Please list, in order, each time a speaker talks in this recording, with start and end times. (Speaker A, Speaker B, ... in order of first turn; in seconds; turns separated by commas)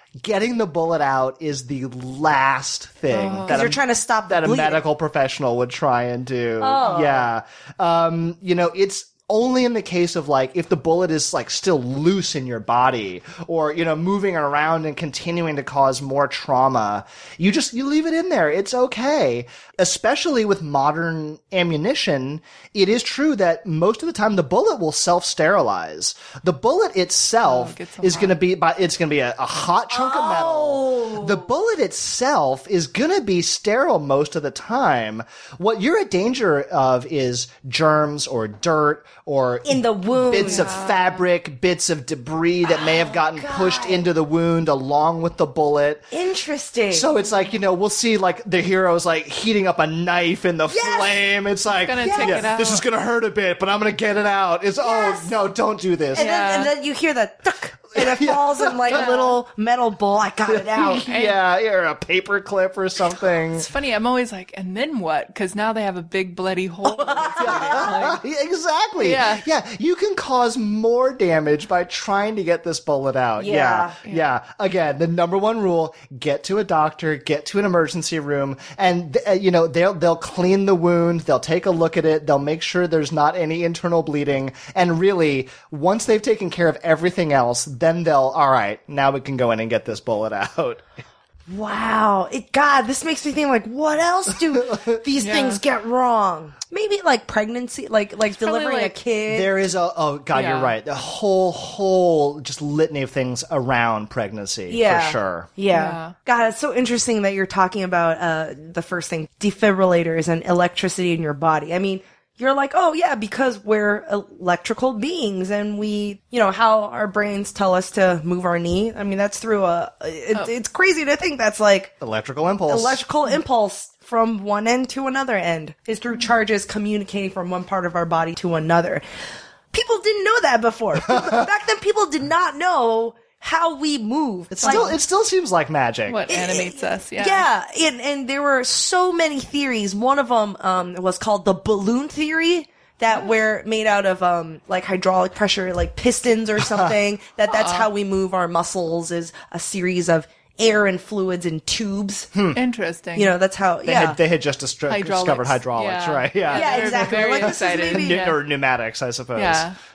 Speaker A: 0.2-46.1, Speaker B: 3.1-3.6, Speaker C: 3.5-4.8, Speaker C: 6.6-7.3, Speaker B: 27.4-28.4, Speaker C: 29.9-31.5, Speaker C: 39.7-40.7, Speaker B: 40.3-41.2, Speaker C: 42.6-44.1, Speaker C: 46.1-47.1, Speaker A: 46.9-56.4, Speaker C: 50.7-51.2, Speaker B: 51.8-52.9, Speaker C: 52.0-52.5, Speaker C: 54.8-55.3, Speaker C: 56.1-61.0, Speaker B: 56.1-56.7, Speaker A: 58.0-59.1, Speaker B: 58.9-59.4, Speaker A: 60.5-63.7, Speaker B: 61.1-61.4, Speaker B: 63.5-68.2, Speaker C: 66.9-67.7, Speaker A: 67.4-90.8, Speaker B: 69.0-69.5, Speaker C: 73.4-74.0, Speaker C: 91.5-99.6, Speaker A: 94.3-95.0, Speaker B: 95.2-95.6, Speaker B: 98.3-99.0, Speaker A: 99.3-105.5, Speaker B: 100.3-100.8, Speaker C: 104.7-121.9, Speaker B: 105.7-106.2, Speaker A: 122.0-123.0, Speaker C: 122.7-129.0, Speaker C: 129.7-134.9, Speaker A: 134.5-136.3, Speaker B: 134.6-135.0, Speaker B: 136.1-137.5, Speaker C: 136.3-152.3, Speaker A: 146.6-146.9, Speaker B: 147.5-147.9, Speaker A: 152.3-152.6, Speaker B: 152.5-153.3, Speaker C: 153.2-154.2, Speaker A: 153.8-159.7, Speaker B: 154.9-158.4, Speaker C: 156.5-158.2, Speaker B: 159.3-159.8